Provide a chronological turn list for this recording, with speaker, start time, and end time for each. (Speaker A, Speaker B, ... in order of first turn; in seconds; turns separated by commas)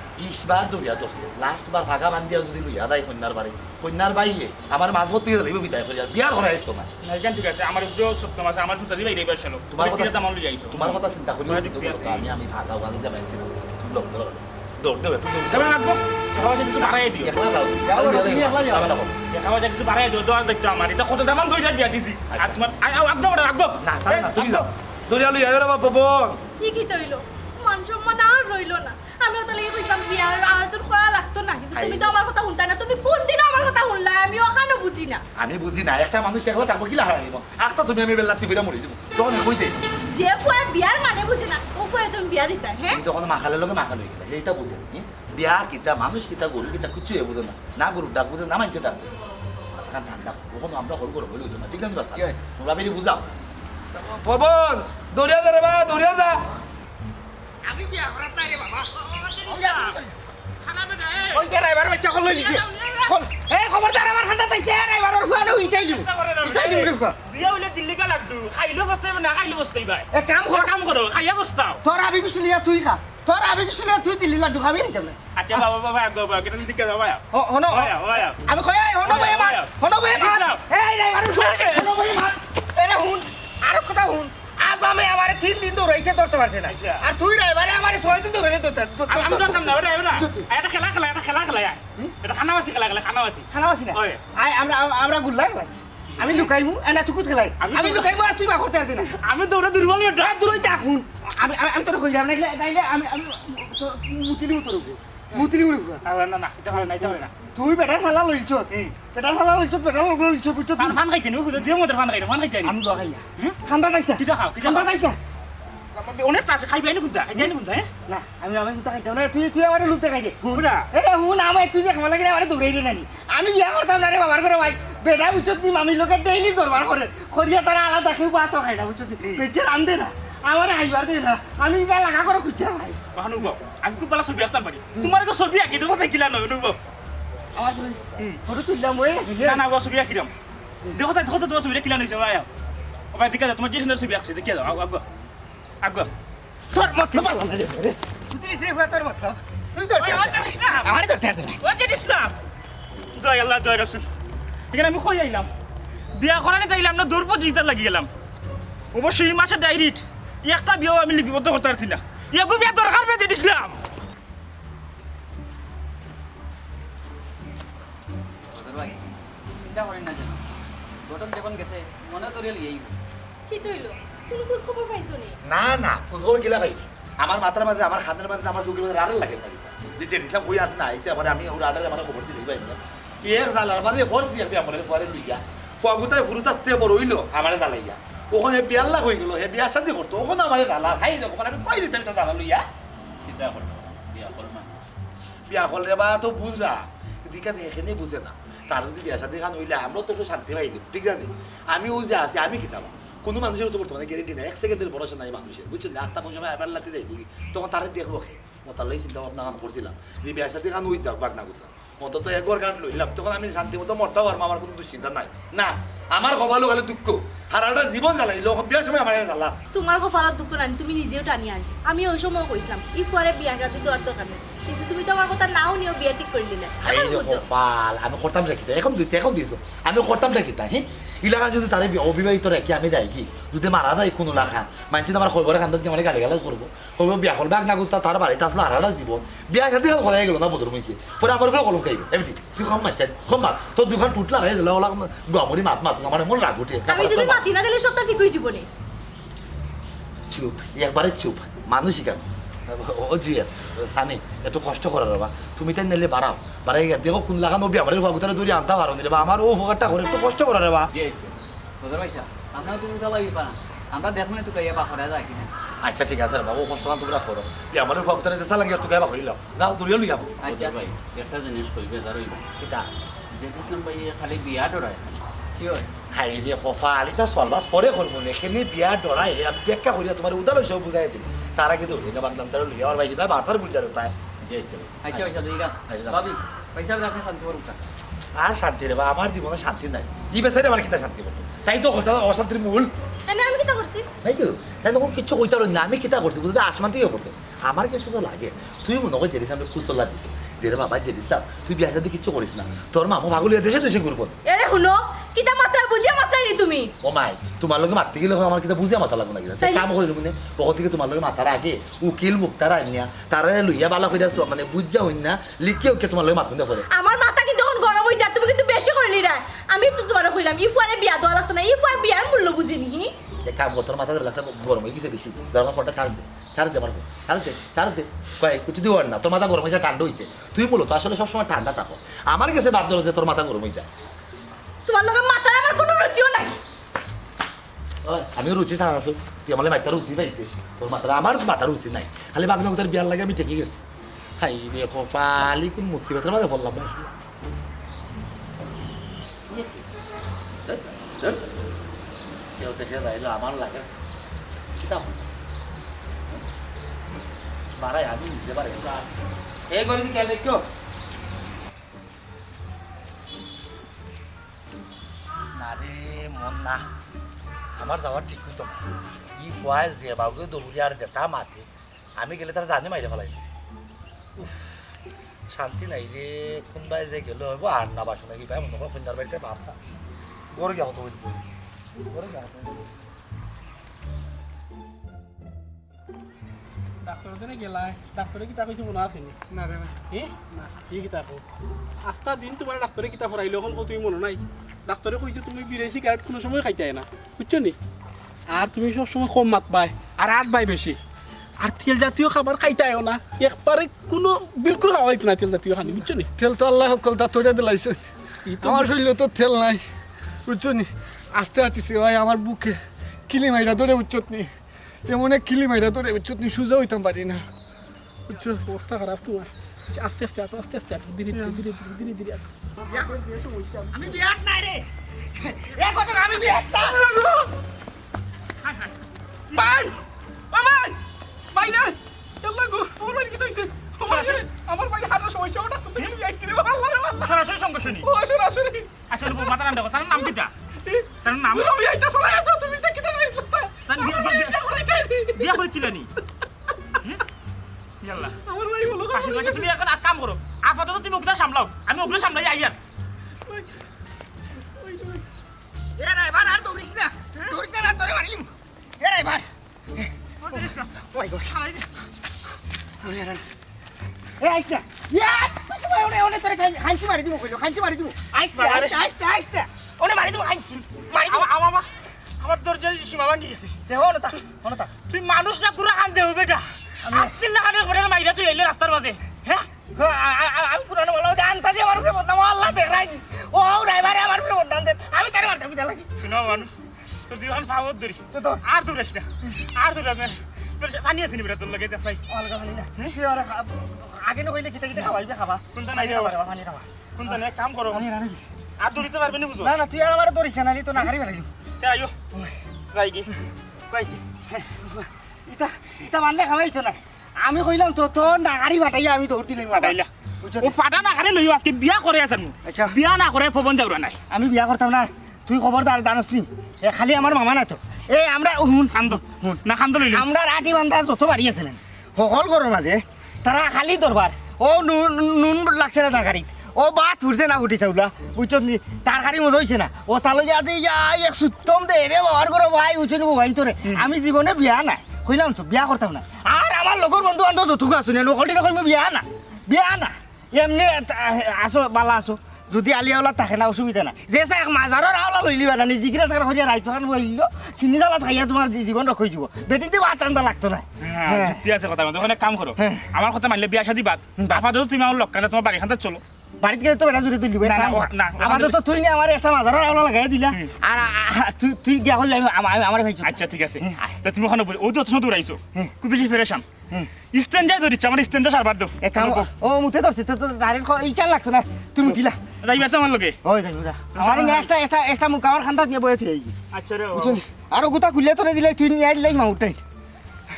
Speaker A: 0.2-6.9, Speaker B: 7.0-12.2, Speaker A: 9.7-15.7, Speaker B: 15.5-17.3, Speaker A: 16.8-19.2, Speaker C: 17.8-18.9, Speaker B: 19.3-24.7, Speaker A: 22.3-22.6, Speaker A: 23.8-26.4, Speaker D: 26.6-35.2, Speaker A: 31.7-32.1, Speaker A: 35.4-39.8, Speaker D: 40.1-43.0, Speaker A: 42.9-49.0, Speaker A: 49.7-53.3, Speaker A: 53.9-56.4, Speaker E: 57.6-58.9, Speaker B: 59.0-60.0, Speaker E: 59.5-60.1, Speaker B: 60.6-61.5, Speaker E: 61.3-67.2, Speaker B: 62.4-63.1, Speaker B: 65.8-71.8, Speaker E: 70.1-70.7, Speaker E: 71.8-75.2, Speaker B: 75.4-78.4, Speaker E: 77.3-90.5, Speaker B: 79.0-80.6, Speaker B: 81.4-81.8, Speaker B: 86.7-87.0, Speaker B: 89.1-94.2, Speaker E: 93.5-99.2, Speaker B: 96.2-96.5, Speaker B: 97.6-98.1, Speaker B: 99.2-100.4, Speaker E: 100.2-106.0, Speaker B: 106.0-107.3, Speaker E: 107.1-111.0, Speaker B: 110.8-112.8, Speaker E: 112.6-115.2, Speaker B: 114.2-114.9, Speaker B: 116.0-117.9, Speaker E: 118.1-133.0, Speaker B: 120.5-120.9, Speaker B: 133.2-136.8, Speaker E: 137.6-139.6, Speaker B: 139.4-140.3, Speaker B: 140.9-142.5, Speaker B: 143.1-145.0, Speaker B: 145.8-146.1, Speaker E: 146.7-151.6, Speaker B: 150.0-150.9, Speaker B: 151.6-152.3, Speaker B: 153.2-154.1, Speaker B: 154.7-155.5, Speaker B: 156.2-158.1, Speaker B: 158.9-163.8, Speaker C: 168.5-169.0, Speaker C: 169.6-170.4, Speaker C: 171.1-172.9, Speaker D: 173.5-175.4, Speaker A: 175.4-192.7, Speaker F: 193.2-194.7, Speaker A: 195.5-219.6, Speaker D: 219.7-227.4, Speaker A: 226.8-247.4, Speaker D: 246.9-248.7, Speaker A: 250.3-260.9, Speaker C: 260.9-265.5, Speaker A: 265.8-270.4, Speaker C: 270.4-270.8, Speaker F: 270.4-272.4, Speaker A: 272.6-272.9, Speaker F: 273.4-275.1, Speaker C: 275.6-275.9, Speaker A: 276.1-284.1, Speaker F: 284.4-285.0, Speaker C: 285.0-287.8, Speaker A: 285.1-286.3, Speaker A: 288.4-292.9, Speaker D: 293.3-294.1, Speaker A: 294.2-304.4, Speaker D: 304.5-306.9, Speaker A: 307.0-316.9, Speaker D: 309.6-309.9, Speaker D: 316.9-323.1, Speaker A: 323.4-333.9, Speaker D: 334.9-336.6, Speaker A: 338.0-343.8, Speaker A: 344.4-347.1, Speaker A: 349.5-349.9, Speaker A: 350.7-351.5, Speaker A: 352.6-353.9, Speaker A: 354.8-355.1, Speaker A: 357.8-359.1, Speaker A: 359.7-360.6, Speaker A: 365.6-366.9, Speaker A: 367.8-373.4, Speaker A: 374.4-374.7, Speaker A: 375.5-379.8, Speaker A: 380.6-381.4, Speaker A: 382.1-382.8, Speaker G: 387.0-389.4, Speaker H: 389.5-389.9, Speaker G: 390.0-391.4, Speaker G: 392.1-397.8, Speaker G: 398.5-401.0, Speaker G: 401.6-406.3, Speaker H: 406.4-408.0, Speaker G: 408.5-409.0, Speaker H: 408.6-409.8, Speaker H: 410.5-412.8, Speaker H: 413.3-414.5, Speaker H: 415.1-417.4, Speaker G: 418.3-424.2, Speaker H: 421.3-421.6, Speaker E: 422.9-423.2, Speaker E: 423.9-427.2, Speaker G: 426.4-427.5, Speaker B: 429.5-429.9, Speaker G: 429.5-430.0, Speaker G: 430.5-431.0, Speaker G: 431.5-437.4, Speaker B: 434.0-434.5, Speaker B: 437.2-438.1, Speaker G: 437.9-439.5, Speaker B: 439.1-440.5, Speaker G: 440.9-445.7, Speaker B: 441.2-441.9, Speaker B: 443.9-444.8, Speaker B: 445.3-446.1, Speaker B: 448.0-448.4, Speaker G: 448.4-449.7, Speaker B: 449.1-452.8, Speaker G: 454.8-455.2, Speaker E: 456.0-460.1, Speaker B: 460.4-461.9, Speaker E: 461.0-461.6, Speaker E: 463.0-463.4, Speaker E: 464.4-471.5, Speaker B: 468.6-469.0, Speaker B: 471.2-471.9, Speaker B: 472.4-473.8, Speaker E: 473.9-474.9, Speaker B: 475.1-479.6, Speaker E: 477.1-477.4, Speaker E: 479.9-486.1, Speaker B: 486.2-486.7, Speaker B: 487.3-492.2, Speaker E: 488.3-488.6, Speaker E: 492.3-497.4, Speaker B: 495.7-496.4, Speaker B: 497.2-498.1, Speaker E: 497.9-498.4, Speaker B: 498.8-499.7, Speaker E: 499.6-501.5, Speaker B: 501.8-502.1, Speaker B: 502.9-503.3, Speaker E: 503.9-510.8, Speaker B: 509.8-510.1, Speaker B: 510.6-514.2, Speaker E: 512.6-513.0, Speaker E: 514.3-551.6, Speaker B: 518.9-520.3, Speaker B: 551.0-556.2, Speaker E: 552.8-553.0, Speaker E: 556.6-564.1, Speaker B: 557.6-558.8, Speaker B: 563.2-566.6, Speaker B: 567.3-569.5, Speaker E: 569.0-572.4, Speaker B: 572.0-573.4, Speaker E: 573.4-576.5, Speaker B: 574.1-574.7, Speaker B: 576.7-577.4, Speaker E: 577.1-579.8